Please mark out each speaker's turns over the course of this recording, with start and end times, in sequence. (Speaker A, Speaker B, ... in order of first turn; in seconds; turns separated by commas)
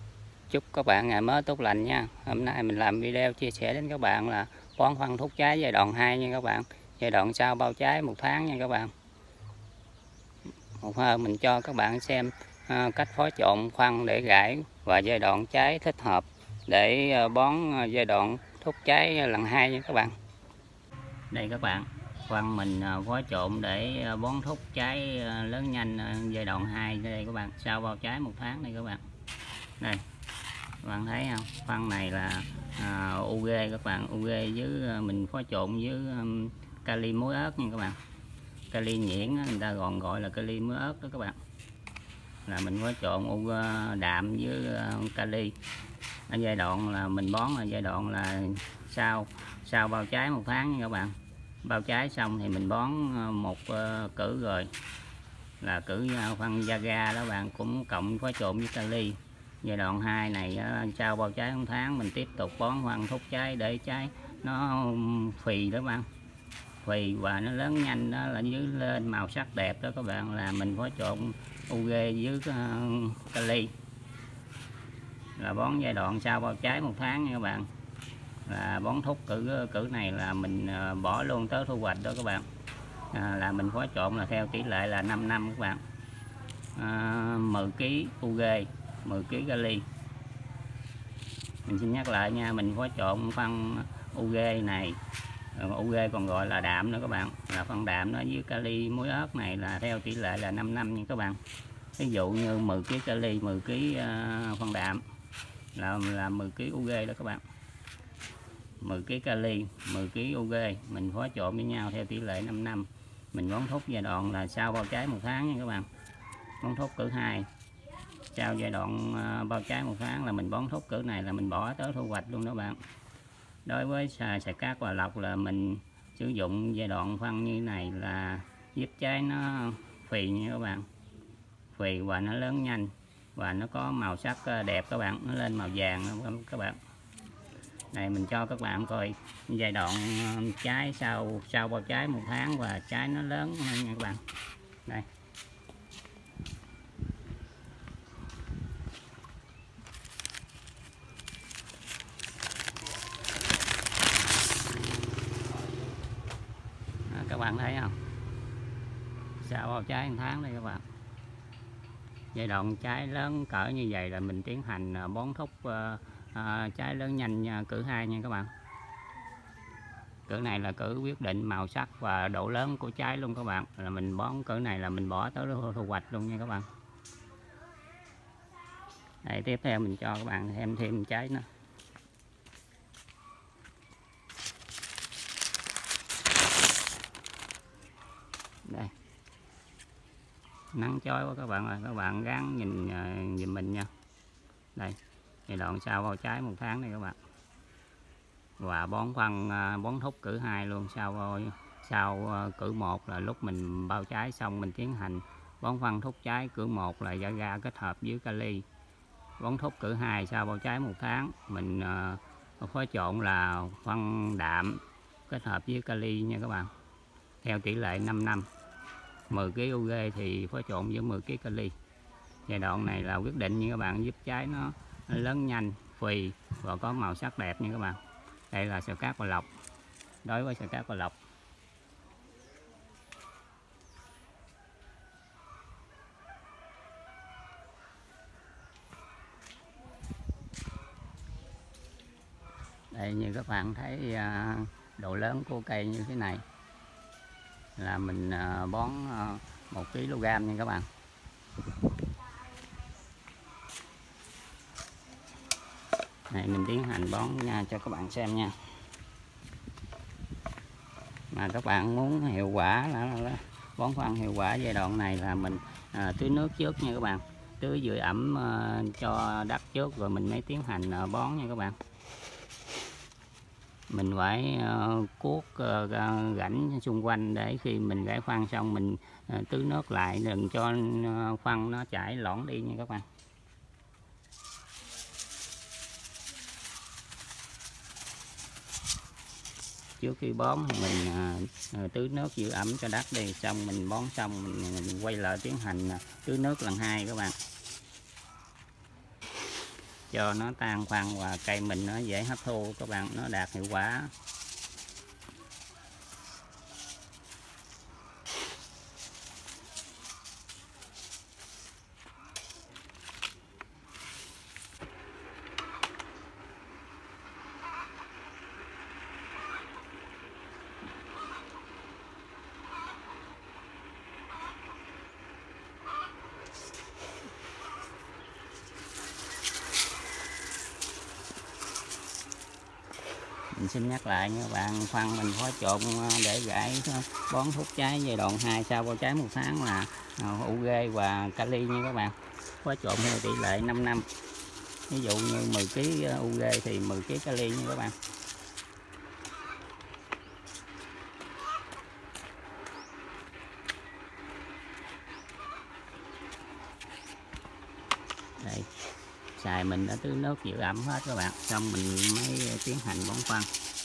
Speaker A: 0.5-8.9, Speaker A: 10.8-20.1, Speaker A: 21.3-29.0, Speaker A: 30.8-38.0, Speaker A: 38.7-41.4, Speaker A: 42.5-45.5, Speaker A: 46.3-54.7, Speaker A: 55.6-66.1, Speaker A: 66.8-73.7, Speaker A: 75.4-77.7, Speaker A: 78.5-82.5, Speaker A: 83.1-85.8, Speaker A: 86.7-89.8, Speaker A: 91.7-95.0, Speaker A: 95.5-101.4, Speaker A: 102.0-105.0, Speaker A: 105.7-107.4, Speaker A: 108.8-115.9, Speaker A: 116.6-117.5, Speaker A: 118.3-122.8, Speaker A: 123.7-130.9, Speaker A: 131.7-136.8, Speaker A: 137.9-144.2, Speaker A: 157.1-158.0, Speaker A: 159.4-160.8, Speaker A: 162.3-168.5, Speaker A: 170.3-176.7, Speaker A: 179.2-181.5, Speaker A: 188.6-188.9, Speaker A: 190.7-193.9, Speaker A: 194.8-197.2, Speaker A: 198.6-208.7, Speaker A: 209.4-216.7, Speaker A: 217.4-218.5, Speaker A: 219.3-221.8, Speaker A: 222.5-229.5, Speaker A: 230.2-231.2, Speaker A: 242.9-246.4, Speaker A: 247.8-250.9, Speaker A: 256.3-258.6, Speaker A: 261.3-271.8, Speaker A: 273.9-283.1, Speaker A: 290.0-297.4, Speaker A: 300.1-304.1, Speaker A: 333.5-344.1, Speaker A: 344.9-348.0, Speaker A: 358.4-358.7, Speaker A: 359.4-363.5